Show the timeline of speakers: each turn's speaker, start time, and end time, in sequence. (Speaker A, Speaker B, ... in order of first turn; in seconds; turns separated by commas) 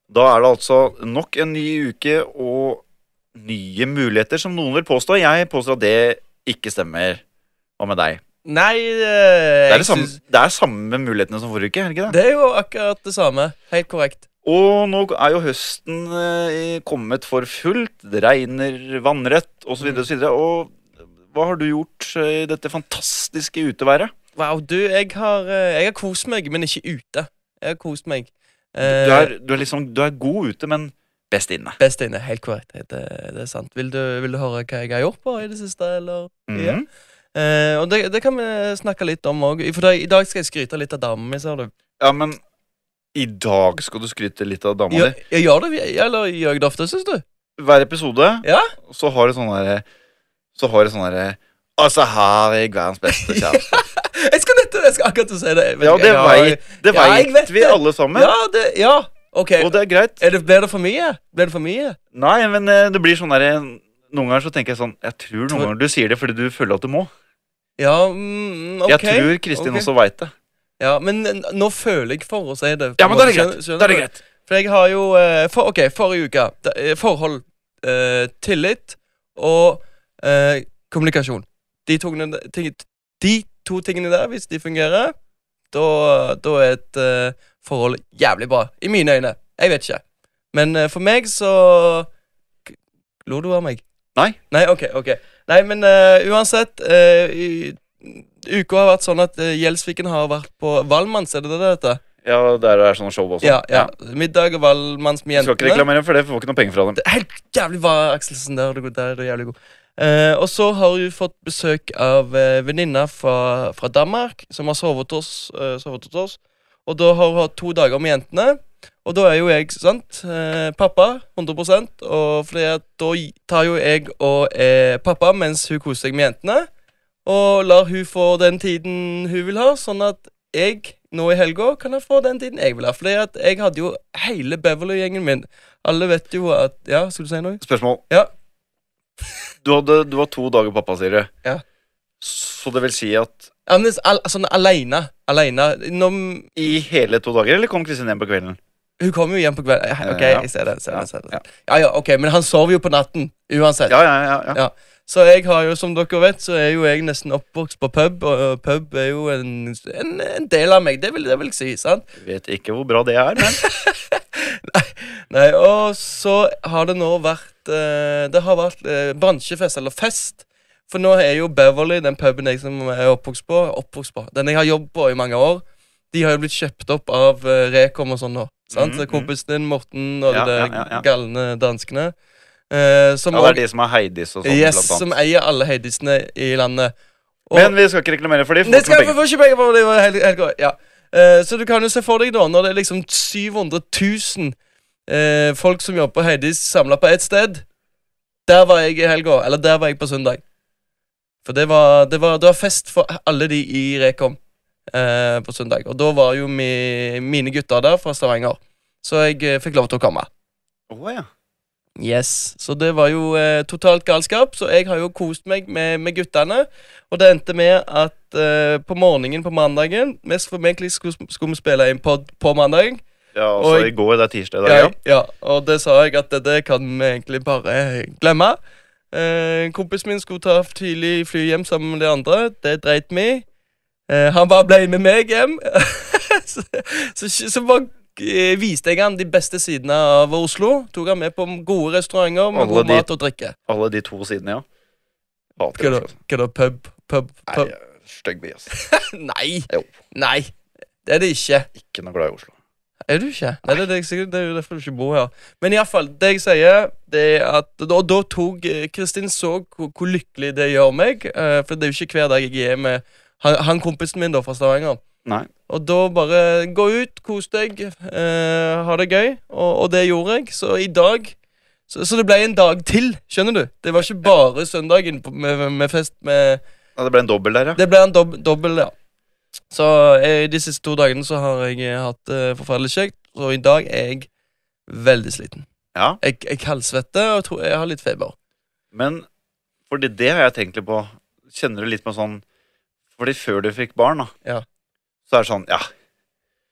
Speaker A: 0.1-2.8, Speaker A: 3.4-7.2, Speaker A: 7.8-8.2, Speaker B: 8.4-10.2, Speaker A: 9.7-12.2, Speaker B: 12.1-14.2, Speaker A: 14.4-20.8, Speaker A: 21.3-24.1, Speaker B: 24.4-29.3, Speaker A: 28.8-31.8, Speaker B: 31.8-36.8, Speaker A: 36.5-36.9, Speaker B: 37.4-41.7, Speaker A: 42.0-42.4, Speaker A: 43.1-45.2, Speaker B: 44.9-47.2, Speaker A: 47.6-49.8, Speaker B: 48.4-48.7, Speaker A: 50.6-53.8, Speaker B: 53.1-62.0, Speaker A: 55.8-58.3, Speaker A: 59.6-60.2, Speaker A: 62.1-67.1, Speaker B: 67.8-69.9, Speaker A: 68.9-70.3, Speaker B: 70.8-85.2, Speaker A: 73.0-74.2, Speaker B: 85.7-90.0, Speaker B: 90.5-92.1, Speaker B: 92.7-93.8, Speaker B: 94.5-102.0, Speaker A: 102.2-103.9, Speaker B: 103.4-105.9, Speaker A: 105.4-107.0, Speaker B: 107.0-126.7, Speaker B: 127.2-138.3, Speaker A: 137.6-138.0, Speaker A: 139.6-141.3, Speaker A: 142.2-143.5, Speaker B: 143.7-146.6, Speaker A: 146.6-148.6, Speaker B: 149.0-154.0, Speaker A: 150.0-151.4, Speaker A: 153.9-154.6, Speaker B: 154.5-162.1, Speaker A: 162.2-163.6, Speaker B: 163.4-182.2, Speaker A: 178.7-179.3, Speaker A: 180.3-181.1, Speaker B: 182.7-183.6, Speaker A: 183.3-185.1, Speaker B: 184.4-186.9, Speaker B: 187.5-187.7, Speaker A: 187.5-189.2, Speaker B: 188.6-194.6, Speaker B: 195.1-197.6, Speaker B: 198.5-200.4, Speaker B: 201.4-204.4, Speaker B: 204.9-210.3, Speaker A: 210.9-211.3, Speaker B: 212.0-223.0, Speaker A: 223.3-224.9, Speaker B: 223.6-223.9, Speaker B: 224.6-228.6, Speaker B: 229.1-233.4, Speaker B: 234.1-243.6, Speaker A: 242.5-243.1, Speaker A: 243.7-244.7, Speaker A: 245.6-246.1, Speaker B: 245.8-247.7, Speaker A: 247.5-248.7, Speaker B: 248.7-250.5, Speaker A: 249.7-249.9, Speaker B: 251.0-251.7, Speaker A: 251.8-252.5, Speaker B: 253.1-265.0, Speaker B: 265.7-271.4, Speaker B: 271.9-276.6, Speaker A: 277.0-277.8, Speaker B: 277.8-278.9, Speaker B: 279.7-284.3, Speaker B: 284.9-285.7, Speaker A: 285.9-286.2, Speaker B: 286.2-288.4, Speaker A: 288.9-289.3, Speaker A: 289.9-292.4, Speaker A: 293.2-294.3, Speaker A: 295.3-295.9